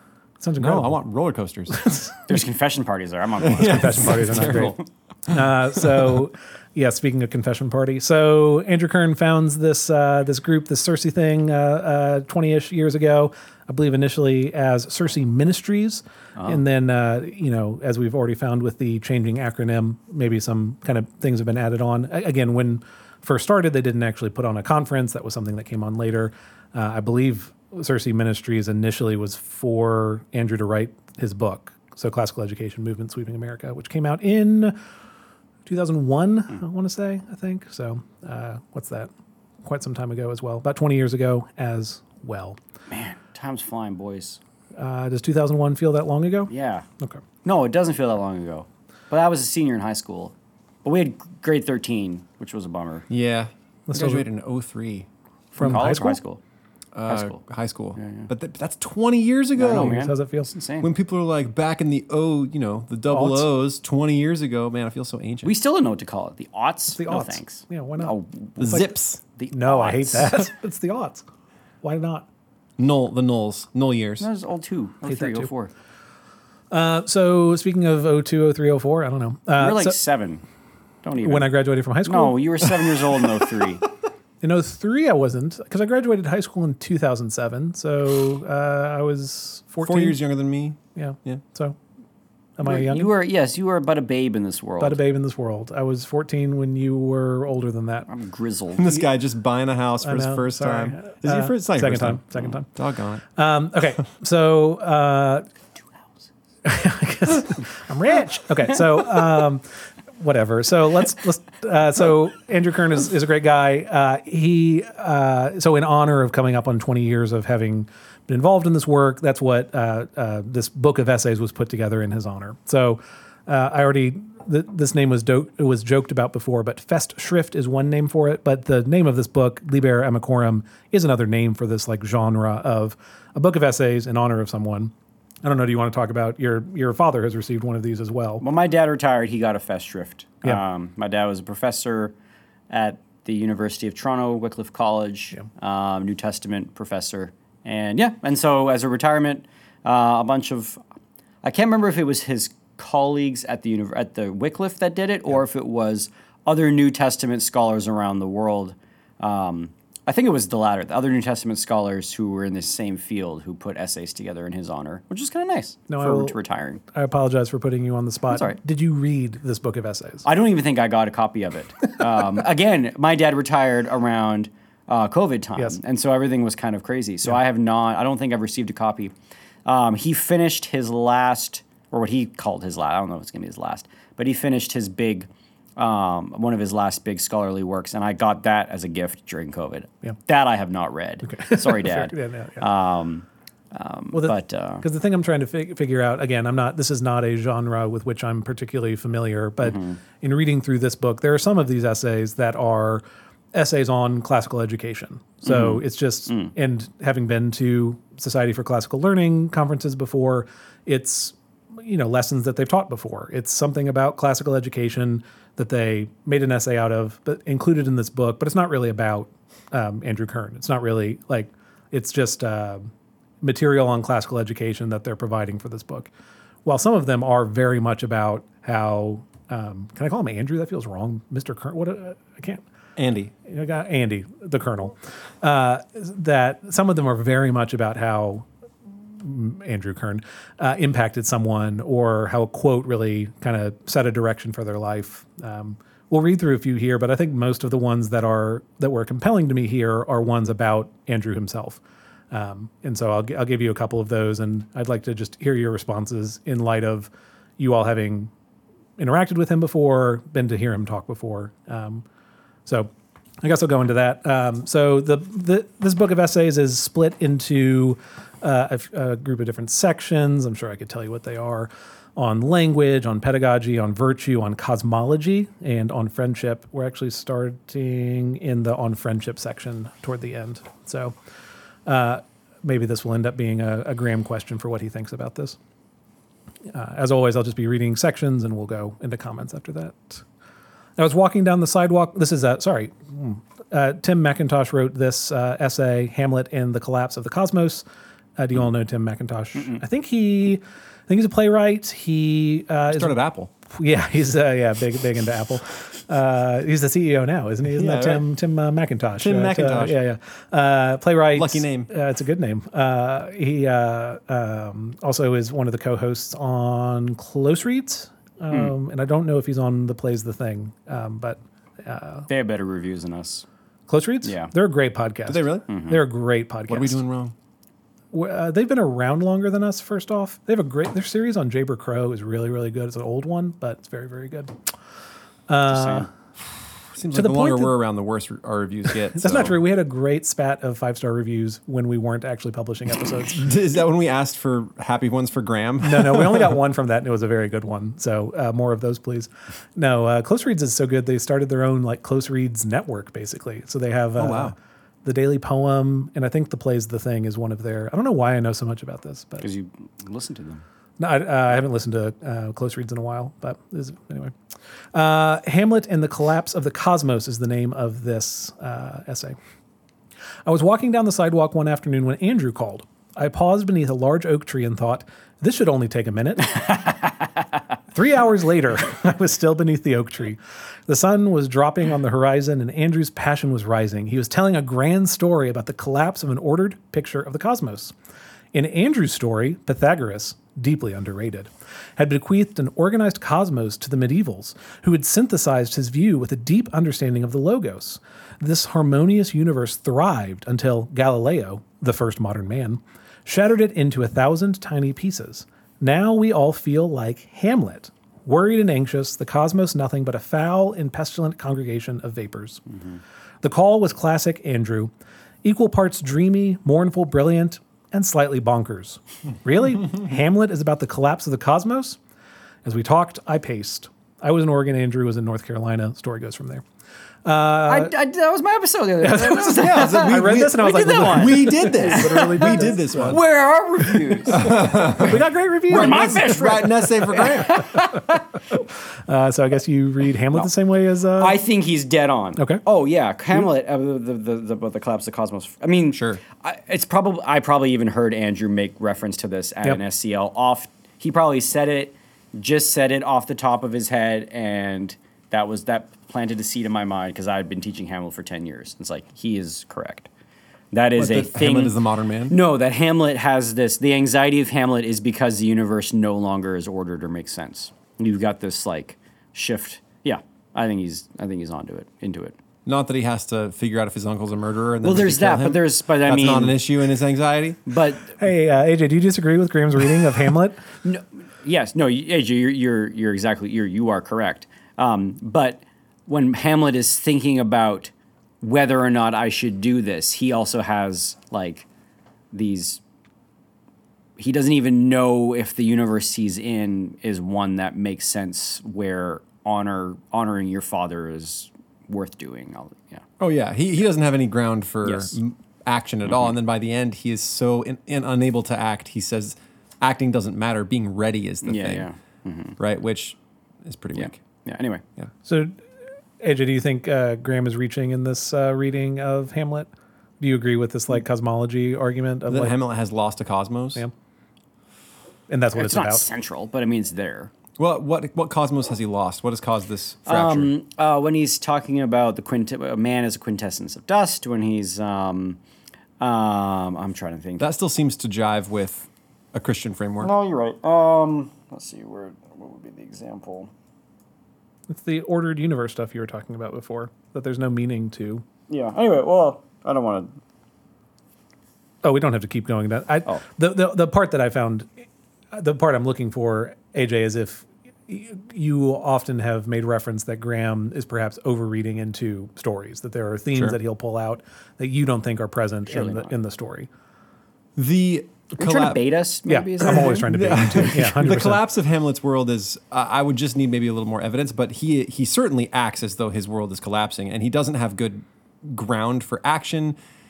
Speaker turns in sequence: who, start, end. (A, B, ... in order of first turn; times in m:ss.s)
0:00.4-0:01.0 A
0:00.6-0:01.8 B
0:01.7-0:02.4 A
0:02.3-0:04.8 C
0:03.4-0:04.8 B
0:03.6-0:34.8 A
0:05.3-0:06.2 B
0:35.7-0:39.1 A
0:39.6-0:42.6 A
0:42.9-0:44.4 C
0:44.8-0:47.2 A
0:46.5-0:46.9 C
0:47.4-0:50.3 C
0:50.8-0:53.0 C
0:53.1-0:55.1 B
0:53.9-0:54.2 A
0:55.6-0:56.2 A
0:55.6-0:56.4 C
0:57.0-1:00.1 B
0:57.1-0:57.4 C
0:58.0-0:58.3 C
0:59.6-1:00.9 C
0:59.6-1:00.5 A
1:00.8-1:05.5 B
1:03.1-1:03.5 A
1:05.4-1:08.6 C
1:07.0-1:08.9 A
1:08.6-1:09.2 B
1:09.4-1:10.4 C
1:09.5-1:11.2 A
1:11.8-1:12.3 A
1:12.8-1:14.3 B
1:14.2-1:15.7 C
1:15.1-1:15.5 A
1:16.7-1:20.0 A
1:19.6-1:20.4 C
1:21.0-1:21.5 C
1:21.2-1:23.0 A
1:22.0-1:23.8 C
1:24.4-1:30.2 A
1:29.8-1:31.4 B
1:31.0-1:31.8 A
1:32.6-1:33.1 A
1:32.6-1:35.0 C
1:34.8-1:38.1 A
1:38.1-1:38.9 C
1:38.8-1:43.2 B
1:40.0-1:42.7 A
1:43.4-1:45.5 A
1:46.6-2:14.9 A
2:15.4-2:18.4 A
2:18.4-2:22.1 C
2:22.7-2:30.8 C
2:31.4-2:46.8 C
2:45.9-2:46.4 A
2:46.9-2:50.2 A
2:48.3-2:48.6 C
2:50.2-2:59.1 C
2:59.7-3:14.8 C
3:11.2-3:12.6 A
3:14.1-3:23.0 A
3:19.6-3:20.0 C
3:23.5-3:42.9 A
3:25.4-3:26.5 C
3:43.4-3:46.1 A
3:46.6-3:52.6 A
3:53.0-3:53.3 B
3:53.4-3:58.5 A
3:59.1-4:18.3 A
4:19.0-4:22.0 A
4:23.4-4:41.2 A
4:41.9-4:45.6 A
4:46.7-4:50.2 A
4:51.0-4:57.8 A
4:58.4-5:03.2 A
5:02.9-5:03.5 B
5:03.7-5:22.3 A
5:07.7-5:08.2 B
5:09.2-5:10.0 B
5:11.3-5:11.9 B
5:22.3-5:23.4 C
5:23.9-5:27.0 A
5:24.2-5:24.5 C
5:25.3-5:25.7 B
5:25.7-5:26.0 C
5:26.7-5:27.3 B
5:28.1-5:34.6 A
5:35.5-5:36.1 A
5:35.7-5:36.1 C
5:37.0-5:39.6 B
5:37.1-5:37.8 A
5:39.1-5:43.5 A
5:43.3-5:46.6 B
5:45.8-5:59.5 A
5:54.2-5:54.6 B
5:59.4-6:00.6 C
6:01.0-6:04.3 A
6:04.9-6:09.4 A
6:10.4-6:16.7 A
6:17.9-6:27.9 A
6:28.5-6:52.8 A
6:53.4-6:54.9 A
6:55.4-7:02.0 A
7:02.6-7:06.6 A
7:07.2-7:07.9 A
7:07.6-7:15.2 C
7:09.0-7:13.2 A
7:09.6-7:13.2 B
7:14.2-7:16.6 A
7:14.3-7:17.8 B
7:15.7-7:18.2 C
7:17.2-7:21.4 A
7:21.2-7:40.1 C
7:22.4-7:22.6 A
7:25.9-7:26.2 B
7:40.7-7:41.8 C
7:41.0-7:42.4 B
7:42.3-7:52.4 C
7:52.7-7:57.6 B
7:54.8-7:56.6 C
7:57.7-7:58.2 C
7:58.2-8:00.6 A
8:00.8-8:11.7 C
8:12.3-8:12.8 C
8:14.2-8:23.0 C
8:23.2-8:31.9 B
8:24.8-8:25.2 C
8:31.4-8:32.6 C
8:32.6-8:34.2 B
8:34.0-8:34.8 C
8:35.2-8:35.6 A
8:36.2-8:42.6 A
8:42.3-8:43.8 B
8:45.3-8:46.1 A
8:45.6-8:47.3 C
8:47.6-8:50.5 B
8:50.1-8:55.4 C
8:56.0-8:57.4 C
8:57.4-9:00.1 B
9:00.0-9:03.5 C
9:04.7-9:08.2 A
9:08.5-9:10.1 C
9:11.8-9:14.7 A
9:15.3-9:26.7 A
9:25.7-9:26.1 C
9:27.6-9:28.8 B
9:28.4-9:30.1 C
9:29.3-9:31.4 A
9:29.6-9:39.8 B